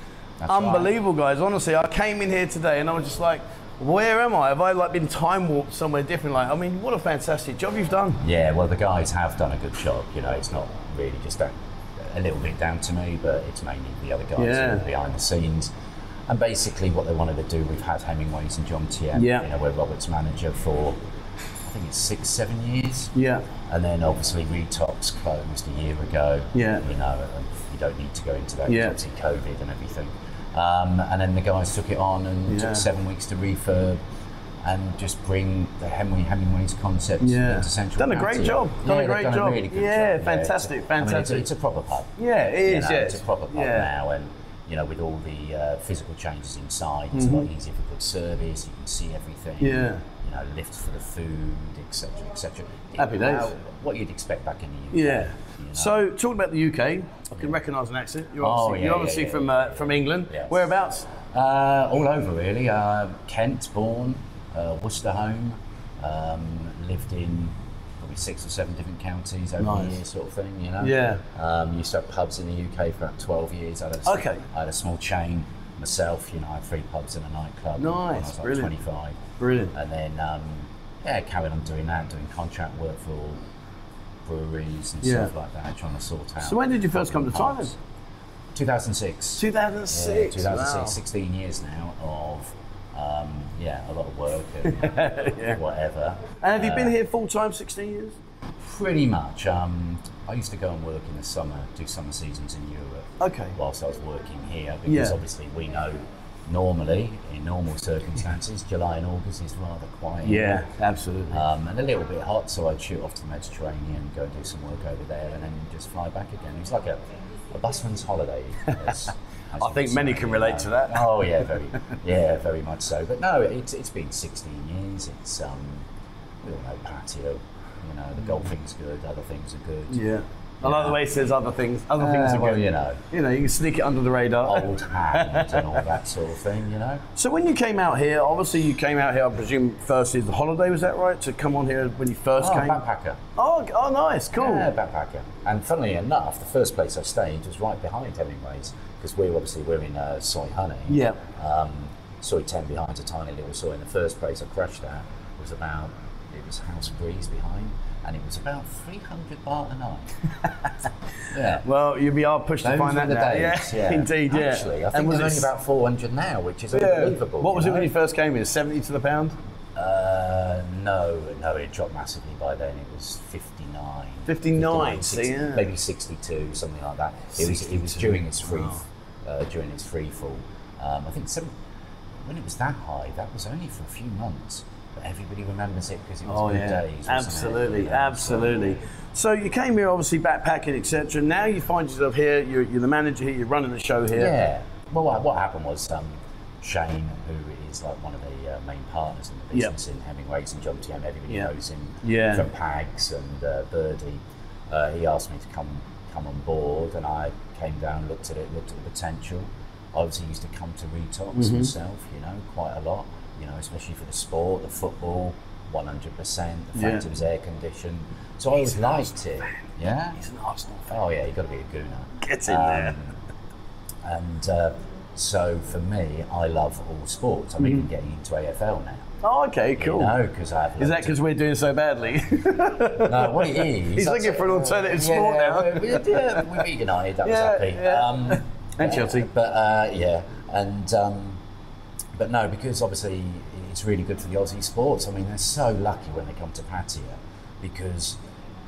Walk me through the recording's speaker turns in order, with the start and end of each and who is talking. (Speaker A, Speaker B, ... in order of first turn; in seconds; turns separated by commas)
Speaker A: 0.4-0.9, Speaker B: 0.5-8.2, Speaker A: 8.2-15.7, Speaker B: 14.4-14.8, Speaker A: 16.3-21.0, Speaker B: 19.1-19.5, Speaker A: 21.6-23.1, Speaker B: 23.1-23.5, Speaker A: 23.7-34.0, Speaker B: 26.5-26.9, Speaker B: 28.7-29.0, Speaker B: 32.5-32.9, Speaker A: 34.6-56.0, Speaker B: 37.2-41.5, Speaker B: 42.2-43.9, Speaker B: 47.1-47.5, Speaker B: 49.6-50.0, Speaker B: 53.0-53.5, Speaker B: 54.9-61.1, Speaker A: 58.4-60.7, Speaker A: 61.2-79.2, Speaker B: 69.6-70.0, Speaker B: 70.8-71.2, Speaker B: 74.1-74.4, Speaker B: 77.8-78.7, Speaker B: 79.4-79.7, Speaker A: 79.7-83.4, Speaker A: 84.2-87.7, Speaker B: 85.0-85.3, Speaker B: 86.4-87.7, Speaker A: 88.5-97.0, Speaker B: 89.4-91.0, Speaker B: 94.7-95.6, Speaker B: 96.4-98.2, Speaker A: 98.6-110.7, Speaker B: 103.2-103.6, Speaker B: 104.9-105.2, Speaker B: 110.2-111.4, Speaker A: 111.3-125.9, Speaker B: 119.6-121.1, Speaker A: 126.4-130.0, Speaker B: 129.9-135.8, Speaker A: 130.6-131.0, Speaker A: 132.0-133.0, Speaker A: 134.4-137.1, Speaker B: 137.2-142.8, Speaker A: 142.4-143.2, Speaker B: 143.4-144.7, Speaker A: 144.4-160.2, Speaker B: 150.9-151.2, Speaker A: 161.3-161.7, Speaker B: 161.6-165.5, Speaker A: 162.6-167.9, Speaker B: 166.7-169.4, Speaker A: 169.8-181.5, Speaker B: 174.3-175.7, Speaker B: 177.4-178.8, Speaker A: 182.2-188.8, Speaker B: 186.3-194.3, Speaker A: 194.1-220.2, Speaker B: 202.0-202.5, Speaker B: 211.4-211.7, Speaker B: 216.8-217.1, Speaker B: 220.2-220.9, Speaker A: 220.9-223.2, Speaker B: 222.2-223.0, Speaker A: 224.0-229.1, Speaker B: 229.2-230.1, Speaker A: 229.8-231.2, Speaker B: 230.8-236.6, Speaker A: 233.0-241.4, Speaker B: 237.2-239.3, Speaker A: 242.2-248.2